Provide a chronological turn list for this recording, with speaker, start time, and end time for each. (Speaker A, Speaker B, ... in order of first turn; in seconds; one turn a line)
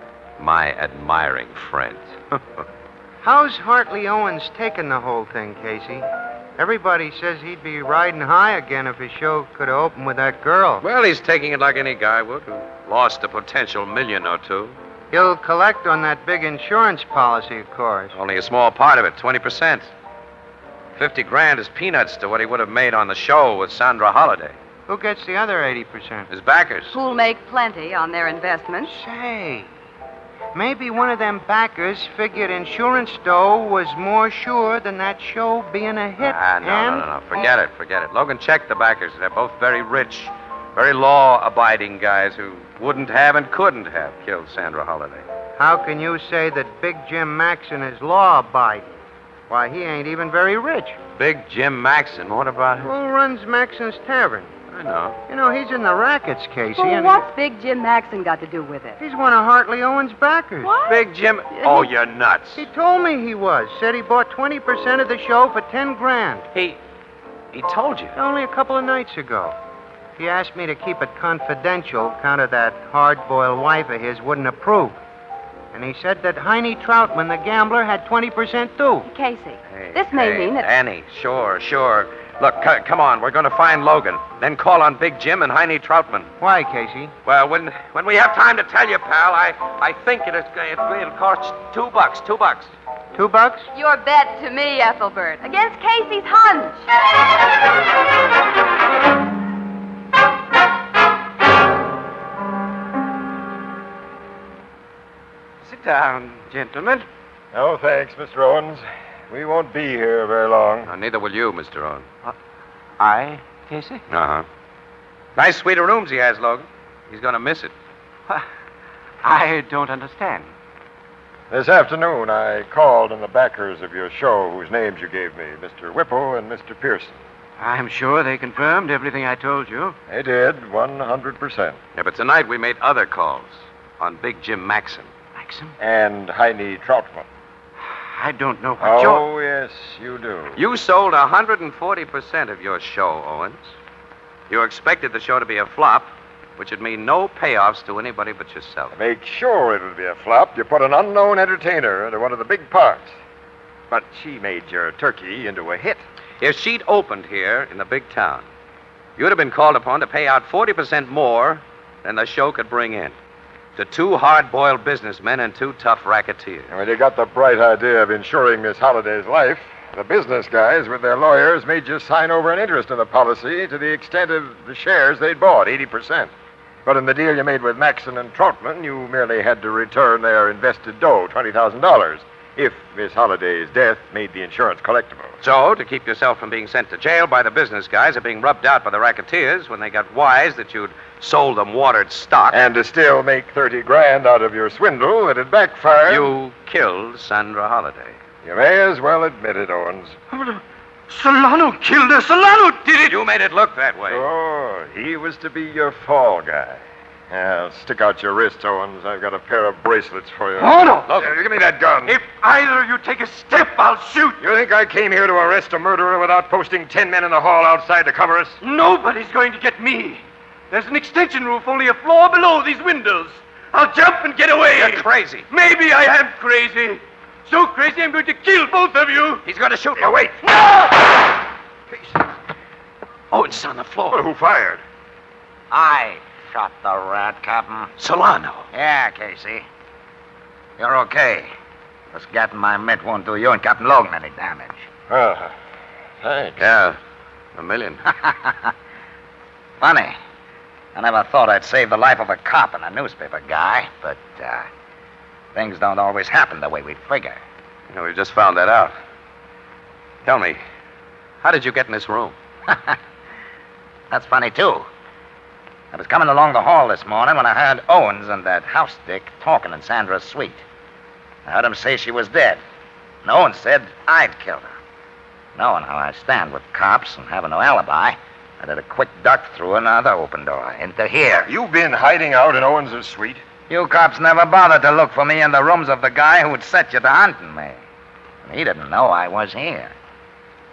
Speaker A: 0.4-2.6
Speaker B: 3.2-6.1
Speaker B: 6.6-10.8
Speaker A: 10.8-14.8
Speaker B: 15.1-18.2
Speaker A: 18.1-19.9
Speaker A: 21.0-24.6
Speaker B: 24.9-26.3
Speaker A: 26.3-27.0
Speaker C: 26.9-29.0
Speaker B: 28.9-29.7
Speaker B: 30.5-37.1
Speaker A: 36.2-45.3
Speaker B: 45.6-51.0
Speaker A: 51.1-52.9
Speaker B: 52.8-54.5
Speaker A: 54.7-55.2
Speaker B: 55.3-57.2
Speaker C: 56.8-59.0
Speaker B: 59.0-60.8
Speaker C: 60.6-61.9
Speaker A: 60.9-62.6
Speaker B: 62.6-66.5
Speaker A: 66.5-66.8
Speaker A: 67.5-68.2
Speaker B: 68.2-69.6
Speaker B: 70.2-75.0
Speaker B: 75.7-79.1
Speaker C: 79.0-80.7
Speaker A: 79.7-86.3
Speaker B: 86.4-87.1
Speaker A: 87.2-92.7
Speaker B: 93.2-93.7
Speaker C: 93.7-96.9
Speaker D: 105.6-107.1
Speaker E: 107.5-110.9
Speaker A: 110.9-112.1
Speaker D: 113.0-114.0
Speaker A: 114.1-114.5
Speaker A: 115.4-117.7
Speaker D: 119.2-120.5
Speaker E: 121.5-127.2
Speaker D: 127.6-130.0
Speaker E: 130.1-131.8
Speaker A: 131.9-135.1
Speaker D: 135.4-135.8
Speaker E: 135.8-137.3
Speaker D: 137.9-139.2
Speaker E: 138.8-140.6
Speaker A: 140.6-143.7
Speaker A: 144.5-148.9
Speaker E: 148.9-153.1
Speaker E: 153.9-156.0
Speaker A: 156.4-158.5
Speaker A: 159.2-163.2
Speaker A: 163.8-166.7
Speaker E: 166.7-176.3
Speaker E: 176.9-185.3
Speaker A: 185.4-192.6
Speaker E: 192.5-196.3
Speaker A: 196.1-198.2
Speaker E: 198.4-200.2
Speaker D: 200.3-203.2
Speaker A: 203.1-204.2
Speaker E: 204.1-212.2
Speaker D: 210.6-211.2
Speaker D: 212.1-214.4
Speaker E: 214.4-218.6
Speaker D: 218.6-229.4
Speaker A: 224.7-225.5
Speaker A: 229.4-230.2
Speaker E: 230.0-230.9
Speaker E: 231.9-232.2
Speaker A: 233.3-234.2
Speaker E: 234.1-234.8
Speaker F: 235.7-237.9
Speaker A: 238.0-238.7
Speaker F: 238.7-239.7
Speaker F: 240.8-241.5
Speaker F: 242.1-244.9
Speaker E: 245.1-245.5
Speaker E: 246.2-246.6
Speaker A: 246.6-247.0
Speaker A: 247.6-248.1
Speaker F: 248.2-248.7
Speaker F: 249.8-250.2
Speaker F: 250.9-254.7
Speaker F: 255.5-257.4
Speaker A: 257.9-258.9
Speaker A: 260.2-260.6
Speaker A: 261.4-262.4
Speaker F: 262.7-263.0
Speaker F: 264.1-264.9
Speaker F: 265.9-270.6
Speaker F: 271.4-272.6
Speaker F: 273.2-274.8
Speaker F: 275.6-281.5
Speaker E: 281.5-283.4
Speaker F: 283.7-287.8
Speaker F: 288.4-289.9